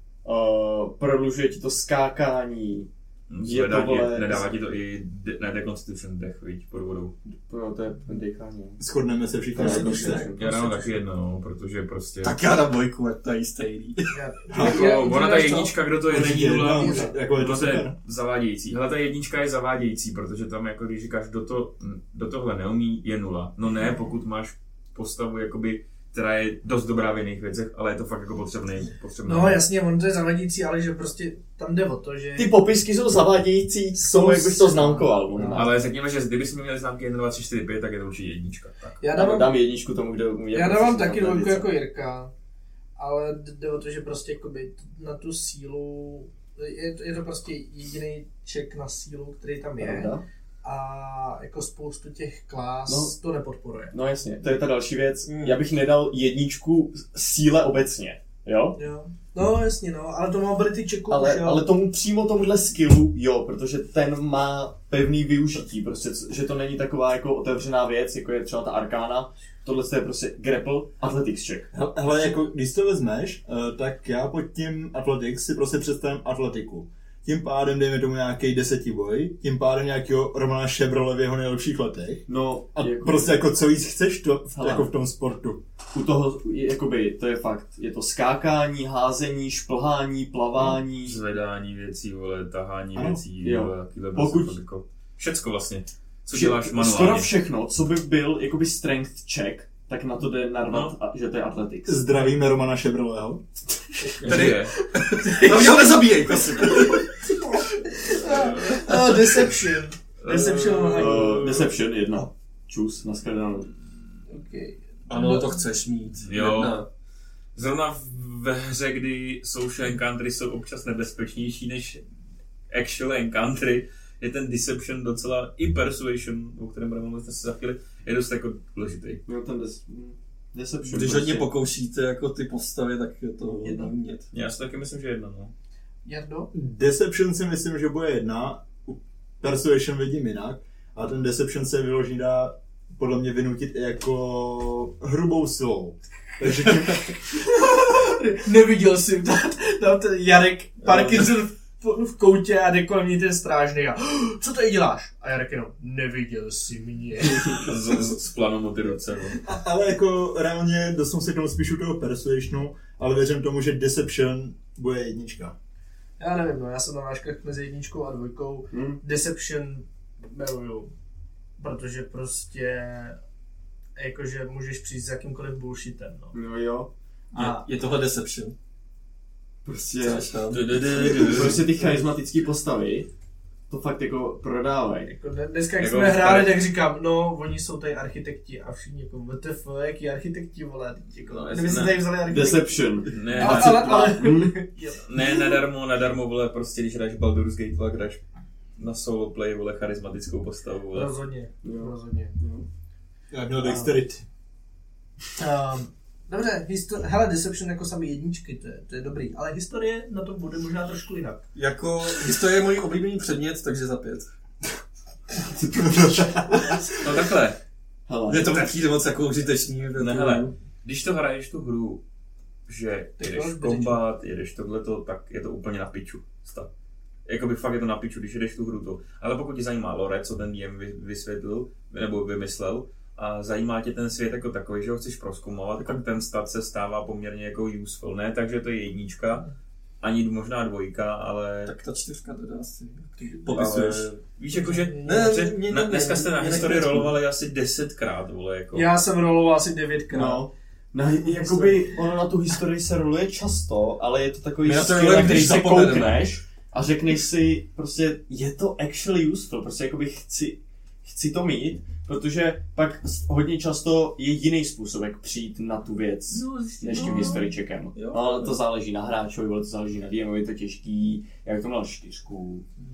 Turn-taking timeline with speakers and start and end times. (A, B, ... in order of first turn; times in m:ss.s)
0:00.2-0:02.9 A
0:03.3-0:07.1 B
0:03.4-0:04.5 A
0:07.2-0:08.8 A
0:08.8-0:10.3 C
0:09.5-0:10.9 A
0:09.6-0:10.3 D
0:10.4-0:12.4 B
0:12.2-0:14.1 E
0:14.1-0:15.7 D
0:14.5-0:14.9 C
0:14.6-0:29.6 B
0:16.1-0:18.0 C
0:16.7-0:17.1 D
0:29.2-0:32.5 D
0:32.4-0:35.7 A
0:34.0-0:35.7 D
0:35.5-0:39.0 B
0:39.0-0:39.5 D
0:39.1-0:41.7 A
0:40.5-0:42.3 D
0:43.0-0:50.1 D
0:49.8-0:50.2 A
0:50.6-0:53.9 D
0:52.9-0:53.1 A
0:53.9-0:58.8 A
0:55.2-0:55.6 E
0:58.8-1:01.6 D
1:01.1-1:11.7 A
1:11.7-1:25.6 C
1:22.3-1:23.3 A
1:24.5-1:24.9 A
1:25.9-1:31.2 A
1:30.7-1:37.3 B
1:32.9-1:33.2 C
1:33.4-1:34.5 A
1:36.3-1:42.0 A
1:40.7-1:40.9 B
1:41.8-1:43.4 C
1:44.1-1:47.4 E
1:44.2-1:44.7 B
1:44.8-1:51.5 D
1:48.3-1:48.9 B
1:48.6-1:49.5 E
1:50.2-1:51.3 B
1:50.9-1:53.7 A
1:54.3-1:55.6 D
1:55.1-1:56.9 E
1:56.2-1:56.8 B
1:57.6-2:02.0 B
2:02.7-2:09.2 B
2:09.2-2:11.5 A
2:10.8-2:14.3 E
2:14.3-2:15.5 B
2:16.0-2:16.5 D
2:16.5-2:27.1 C
2:27.3-2:37.7 D
2:37.4-2:39.4 B
2:39.4-2:45.5 C
2:46.2-2:50.9 D
2:48.7-2:49.0 A
2:51.6-2:53.2 D
2:54.0-2:56.3 D
2:56.3-2:56.9 A
2:57.3-2:57.6 D
2:57.3-2:58.5 E
2:59.6-3:00.3 A
2:59.9-3:01.7 E
3:00.5-3:01.6 B
3:01.0-3:03.1 A
3:03.7-3:05.1 A
3:05.1-3:15.4 D
3:05.8-3:06.6 B
3:11.3-3:12.0 B
3:11.6-3:14.6 A
3:13.1-3:13.9 B
3:15.0-3:18.2 B
3:18.8-3:21.1 B
3:20.9-3:22.4 D
3:21.6-3:22.6 A
3:23.3-3:24.2 C
3:23.6-3:24.0 D
3:25.4-3:31.4 D
3:31.5-3:34.3 E
3:35.7-3:36.8 C
3:37.0-3:37.6 B
3:38.1-3:38.7 A
3:38.3-3:40.5 E
3:40.0-3:42.0 B
3:42.7-3:46.7 B
3:43.2-3:44.0 D
3:47.2-3:59.5 B
4:00.0-4:01.7 B
4:01.6-4:04.2 E
4:03.5-4:08.9 B
4:04.6-4:05.3 D
4:05.0-4:07.1 E
4:08.7-4:10.4 D
4:10.1-4:32.6 A
4:11.2-4:11.8 D
4:14.6-4:16.2 E
4:26.3-4:27.5 B
4:26.8-4:28.6 E